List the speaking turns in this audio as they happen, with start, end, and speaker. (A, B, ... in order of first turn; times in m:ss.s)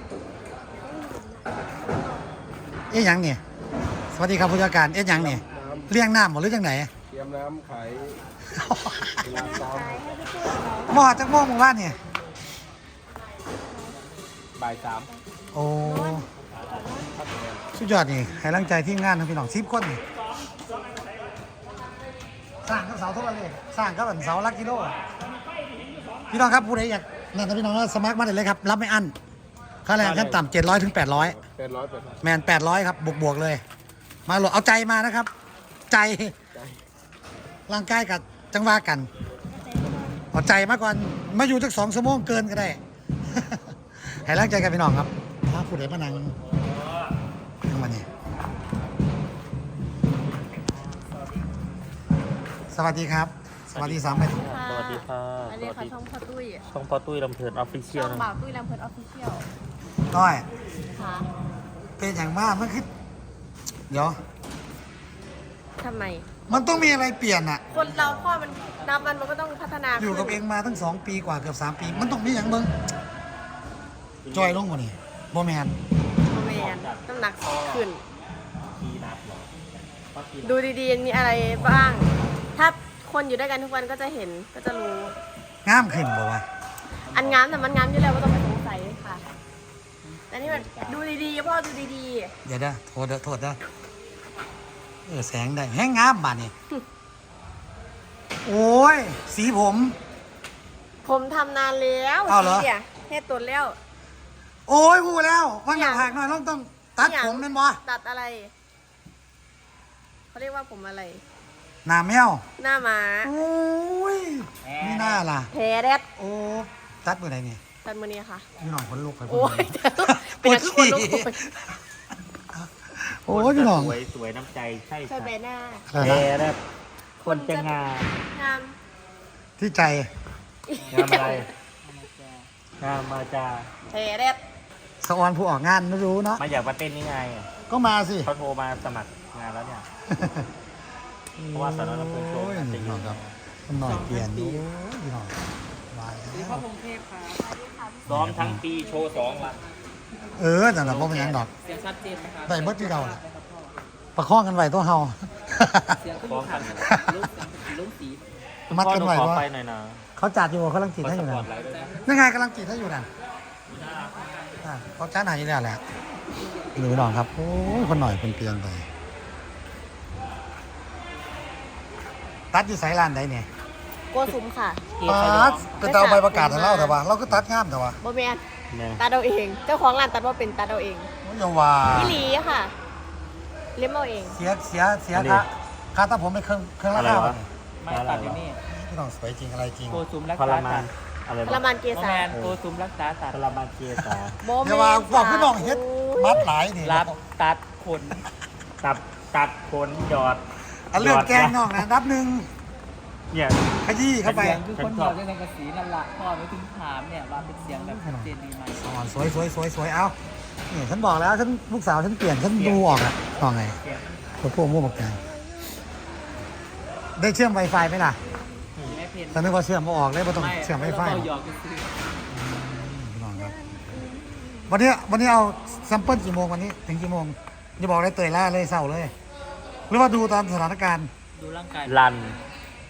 0:00.8-0:02.2 A
0:02.9-0:03.4 B
0:04.1-0:06.9 B
0:05.6-0:05.9 C
0:07.1-0:08.2 C
0:08.5-0:09.4 B
0:09.2-0:11.1 A
0:09.4-0:09.9 C
0:10.9-0:12.0 B
0:15.5-0:16.3 B
0:15.8-0:17.4 A
0:17.7-0:20.0 B
0:22.6-0:25.0 B
0:26.3-0:29.2 B
0:29.9-0:31.4 B
0:31.6-0:32.2 C
0:32.2-0:33.6 B
0:34.3-0:35.3 B
0:35.9-0:36.4 B
0:37.7-0:39.1 B
0:40.3-0:46.4 B
0:47.7-0:48.1 B
0:50.2-0:51.0 D
0:52.7-0:54.4 B
0:53.7-0:56.0 D
0:54.3-0:56.6 A
0:56.7-0:58.3 D
0:57.9-0:59.5 A
1:00.1-1:00.5 B
1:01.0-1:01.3 A
1:02.0-1:02.9 B
1:03.9-1:04.2 B
1:05.8-1:06.3 A
1:06.5-1:07.7 B
1:06.5-1:07.1 D
1:07.7-1:10.4 A
1:07.7-1:08.5 D
1:10.0-1:12.7 B
1:11.8-1:12.6 D
1:14.2-1:14.8 D
1:14.3-1:15.8 B
1:16.3-1:18.0 A
1:16.4-1:17.9 D
1:18.6-1:20.7 D
1:20.4-1:25.1 A
1:21.6-1:22.1 D
1:25.6-1:26.4 B
1:27.1-1:27.8 D
1:27.1-1:29.2 A
1:30.3-1:32.3 A
1:30.3-1:31.1 D
1:32.4-1:33.6 B
1:35.1-1:36.5 B
1:38.4-1:40.0 B
1:41.0-1:43.8 A
1:42.3-1:42.7 B
1:44.7-1:47.8 B
1:45.7-1:46.1 A
1:47.0-1:48.5 A
1:50.3-1:51.2 A
1:51.8-1:52.5 B
1:52.6-1:53.3 A
1:53.2-1:55.5 B
1:54.6-1:55.2 E
1:55.5-1:56.1 A
1:56.2-1:57.6 B
1:57.8-1:58.5 A
1:58.6-2:01.7 B
1:59.3-2:01.5 A
2:02.5-2:04.0 B
2:03.3-2:05.3 D
2:05.1-2:05.9 A
2:05.9-2:06.3 B
2:06.0-2:06.6 D
2:07.2-2:07.8 A
2:07.2-2:08.1 D
2:08.3-2:08.8 A
2:09.6-2:10.1 B
2:10.7-2:11.4 A
2:10.8-2:12.5 E
2:10.9-2:11.5 D
2:12.8-2:13.7 D
2:13.9-2:14.4 A
2:15.0-2:16.4 B
2:16.4-2:17.5 D
2:17.7-2:18.3 B
2:18.2-2:19.9 D
2:20.1-2:20.5 B
2:21.4-2:25.4 B
2:21.5-2:23.4 D
2:23.8-2:24.7 E
2:25.9-2:26.6 B
2:26.3-2:27.6 E
2:28.1-2:28.6 B
2:28.1-2:29.6 D
2:30.4-2:31.5 B
2:30.8-2:31.5 D
2:31.5-2:33.7 E
2:32.5-2:33.2 B
2:34.2-2:36.0 B
2:35.9-2:38.2 E
2:36.3-2:36.9 D
2:36.8-2:37.3 B
2:38.7-2:40.1 D
2:38.7-2:39.4 B
2:40.2-2:41.5 B
2:41.0-2:42.0 D
2:41.6-2:42.0 E
2:42.0-2:43.1 B
2:43.7-2:44.1 D
2:44.6-2:45.8 B
2:46.8-2:48.9 B
2:52.5-2:53.5 B
2:54.1-2:54.9 A
2:55.0-2:55.9 E
2:55.0-2:58.0 B
2:55.8-2:57.0 A
2:58.0-2:58.4 A
2:58.7-2:59.0 D
2:59.0-3:01.1 A
3:01.2-3:02.2 B
3:01.9-3:02.7 A
3:03.8-3:04.4 A
3:04.2-3:07.5 B
3:05.1-3:05.5 D
3:06.9-3:08.4 D
3:07.8-3:08.6 E
3:08.7-3:10.0 B
3:09.9-3:10.9 E
3:10.4-3:11.6 D
3:11.4-3:12.3 A
3:11.9-3:13.4 E
3:12.3-3:12.6 D
3:13.3-3:14.4 D
3:14.4-3:16.5 A
3:14.6-3:17.1 B
3:16.8-3:18.2 E
3:18.8-3:21.8 D
3:20.9-3:22.5 B
3:23.3-3:23.8 D
3:23.8-3:24.6 B
3:24.2-3:28.9 E
3:24.3-3:25.2 D
3:27.6-3:30.2 B
3:30.7-3:33.8 B
3:32.5-3:34.4 D
3:34.4-3:35.2 B
3:37.2-3:38.2 B
3:38.8-3:39.6 E
3:39.3-3:41.3 B
3:40.3-3:41.9 E
3:42.3-3:44.0 B
3:44.2-3:44.6 A
3:44.7-3:49.1 B
3:49.9-3:51.1 B
3:51.3-3:52.0 E
3:51.9-3:52.4 D